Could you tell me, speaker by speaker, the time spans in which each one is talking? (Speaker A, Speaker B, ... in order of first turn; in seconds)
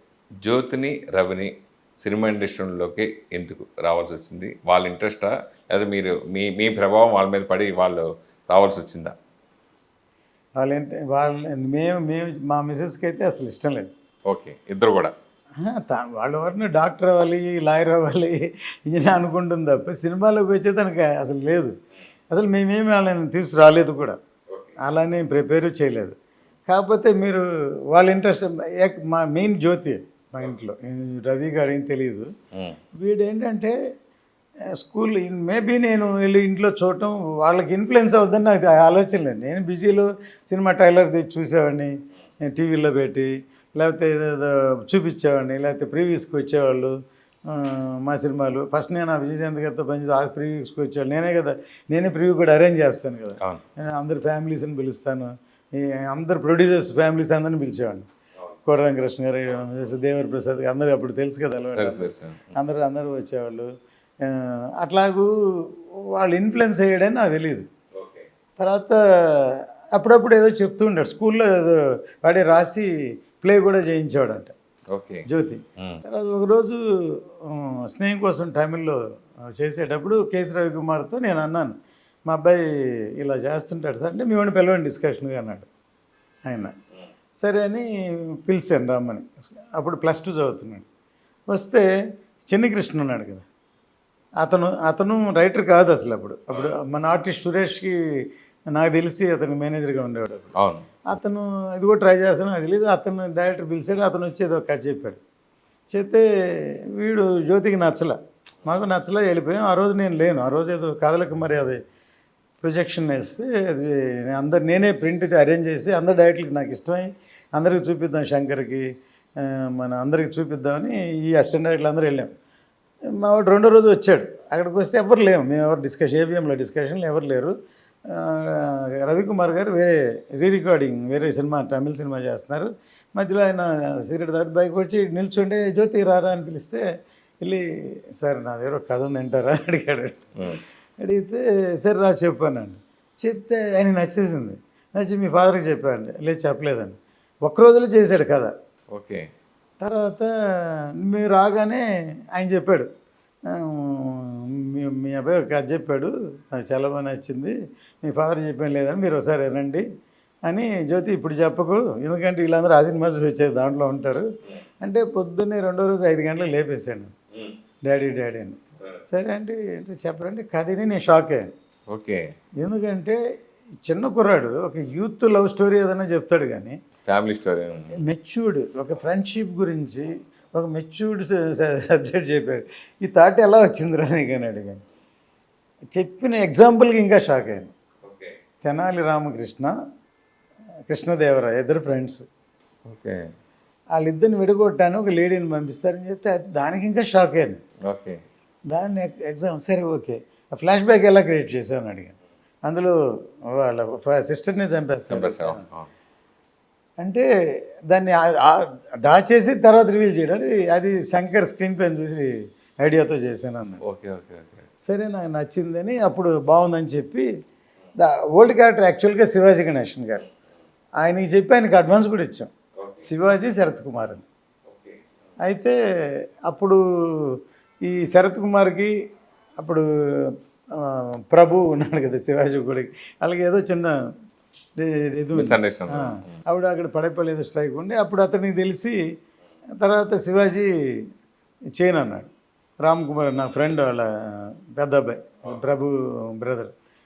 Speaker A: 0.4-9.1, 14.2-15.1, 61.8-62.5, 67.9-68.3, 74.9-75.2, 100.5-100.8, 148.9-149.3, 171.9-172.2, 177.1-177.9, 188.0-188.3, 192.8-193.2, 197.9-198.2, 205.1-205.9, 213.8-214.7, 222.8-223.0, 224.7-225.0, 235.3-236.3
Speaker B: 10.6-13.9, 15.6-21.7, 22.3-24.2, 24.8-26.1, 26.7-32.3, 32.9-33.7, 34.8-41.9, 42.5-46.9, 47.5-58.1, 58.6-63.7, 64.2-67.7, 68.6-74.5, 75.3-79.0, 79.5-81.8, 82.3-85.7, 86.4-86.7, 87.4-90.8, 91.5-91.8, 92.4-93.4, 94.4-100.5, 101.1-105.2, 105.9-111.8, 112.6-118.8, 119.4-122.3, 123.1-127.5, 128.1-136.8, 138.2-140.2, 141.0-148.5, 149.8-152.9, 153.5-159.8, 160.4-164.3, 164.8-167.1, 167.8-168.6, 169.1-171.5, 172.6-173.2, 173.8-176.8, 178.0-184.8, 185.9-187.7, 188.6-189.7, 190.9-192.2, 193.9-197.6, 198.7-202.9, 203.5-205.6, 207.0-207.2, 207.9-213.8, 214.8-217.3, 218.0-220.2, 221.0-222.5, 223.0-224.2, 225.4-225.8, 226.4-228.9, 229.6-234.0, 234.8-239.0, 239.8-240.7, 241.8-242.3, 242.8-246.7